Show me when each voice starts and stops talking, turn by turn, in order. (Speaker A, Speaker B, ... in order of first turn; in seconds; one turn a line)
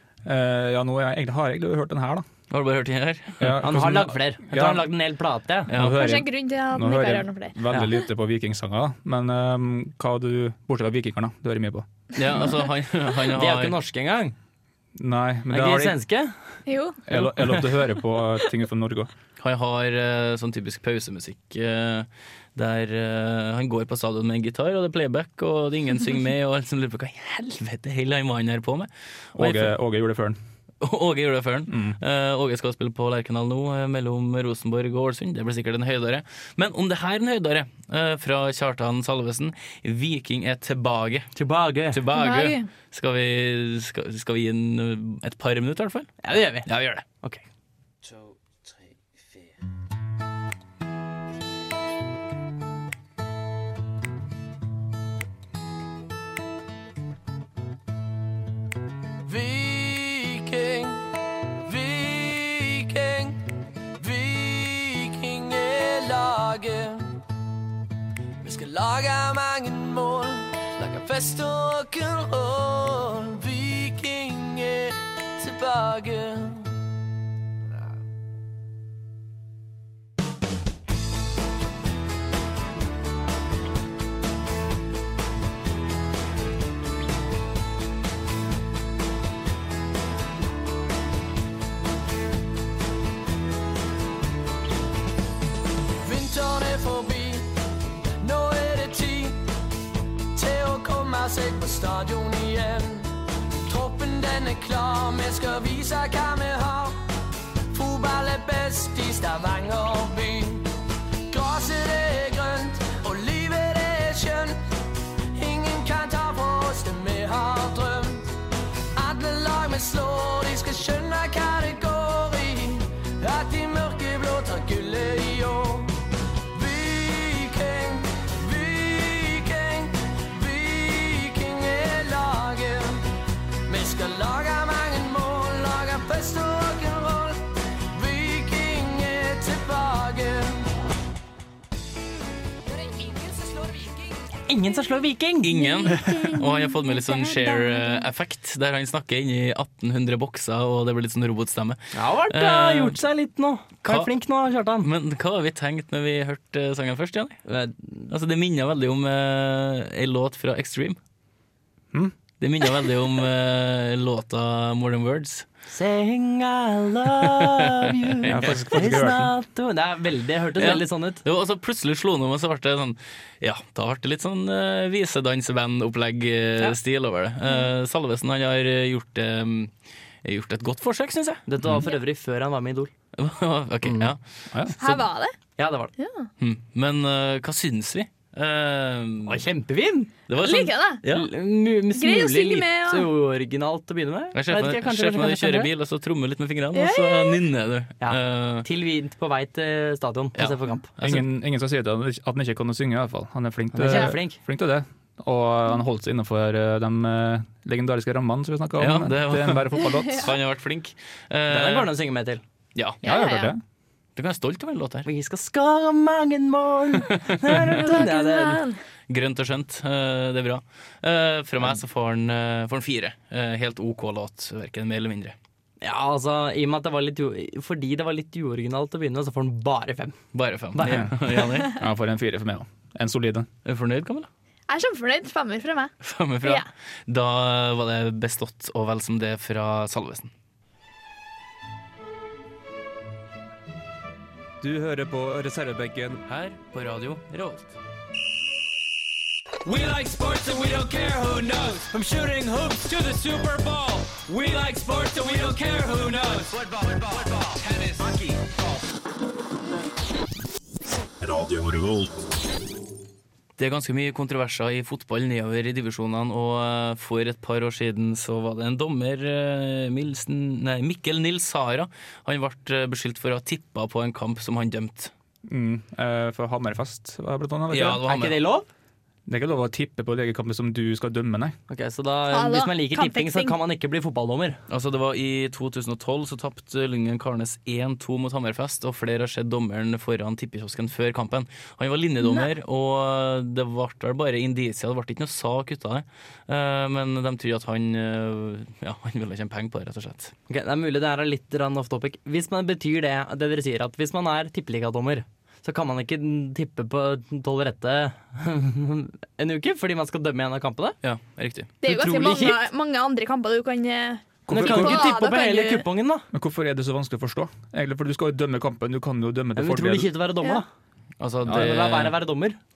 Speaker A: 0.2-2.3
Speaker B: 2.5-3.6
Speaker A: 3.4-4.9
Speaker C: 3.6-5.7
Speaker B: 5.7-6.1
Speaker A: 5.7-11.9
Speaker D: 5.9-7.6
Speaker B: 12.2-13.8
Speaker C: 13.3-14.3
Speaker A: 15.0-16.0
Speaker C: 15.5-16.3
Speaker D: 16.7-17.0
Speaker A: 17.1-19.1
Speaker B: 19.4-29.7
Speaker A: 29.4-30.4
Speaker B: 30.8-41.3
Speaker A: 31.7-32.0
Speaker C: 41.4-42.0
Speaker B: 41.9-47.0
Speaker D: 42.1-42.7
Speaker C: 46.2-47.4
Speaker E: 59.2-61.1
Speaker E: 61.6-63.4
Speaker E: 64.0-67.2
Speaker E: 68.4-76.7
Speaker E: 96.0-97.5
Speaker E: 98.2-99.4
Speaker E: 100.3-103.2
Speaker E: 103.7-107.0
Speaker E: 107.7-110.7
Speaker E: 111.3-114.6
Speaker E: 115.3-118.3
Speaker E: 118.9-126.0
Speaker E: 126.5-133.0
Speaker E: 133.7-140.7
Speaker E: 142.9-144.1
Speaker C: 144.5-145.6
Speaker B: 145.4-153.0
Speaker D: 145.5-148.1
Speaker C: 151.9-154.9
Speaker B: 153.8-154.1
Speaker B: 154.8-157.4
Speaker C: 157.5-158.1
Speaker B: 158.1-161.0
Speaker B: 162.4-165.5
Speaker C: 165.7-171.2
Speaker B: 168.2-168.6
Speaker A: 168.2-169.3
Speaker B: 170.6-179.7
Speaker B: 180.2-181.4
Speaker C: 181.5-182.9
Speaker B: 183.2-184.2
Speaker C: 183.8-184.1
Speaker A: 184.5-185.1
Speaker D: 184.8-185.3
Speaker C: 185.6-185.9
Speaker D: 186.0-186.3
Speaker B: 186.4-189.4
Speaker C: 189.3-190.1
Speaker B: 190.3-191.3
Speaker D: 190.4-191.0
Speaker C: 191.1-195.7
Speaker D: 191.9-193.1
Speaker B: 194.3-198.7
Speaker D: 196.7-197.4
Speaker C: 198.0-200.9
Speaker B: 200.4-201.3
Speaker A: 201.0-210.3
Speaker C: 203.7-204.4
Speaker B: 208.8-211.9
Speaker C: 211.5-212.4
Speaker B: 212.8-213.0
Speaker D: 213.0-213.5
Speaker A: 213.0-213.6
Speaker B: 214.2-215.1
Speaker C: 215.1-218.6
Speaker D: 217.5-218.8
Speaker B: 219.1-225.3
Speaker C: 225.8-230.2
Speaker B: 230.3-231.8
Speaker C: 230.8-231.2
Speaker A: 230.8-233.5
Speaker B: 233.7-234.3
Speaker D: 234.7-236.7
Speaker B: 236.0-240.3
Speaker A: 244.6-246.2
Speaker B: 246.3-247.8
Speaker F: 249.7-251.9
Speaker A: 251.9-256.4
Speaker F: 256.3-258.7
Speaker F: 261.2-262.3
Speaker B: 263.6-275.1
Speaker A: 275.5-278.0
Speaker B: 277.7-278.4
Speaker C: 278.1-278.7
Speaker A: 279.3-281.6
Speaker C: 281.7-284.6
Speaker D: 282.3-283.6
Speaker B: 284.7-300.3
Speaker D: 292.2-292.5
Speaker C: 300.5-311.0
Speaker B: 311.0-311.7
Speaker D: 311.8-315.9
Speaker C: 311.8-312.6
Speaker A: 314.5-315.1
Speaker C: 314.5-316.3
Speaker A: 316.3-320.1
Speaker C: 319.6-320.7
Speaker B: 321.2-322.2
Speaker C: 321.5-322.6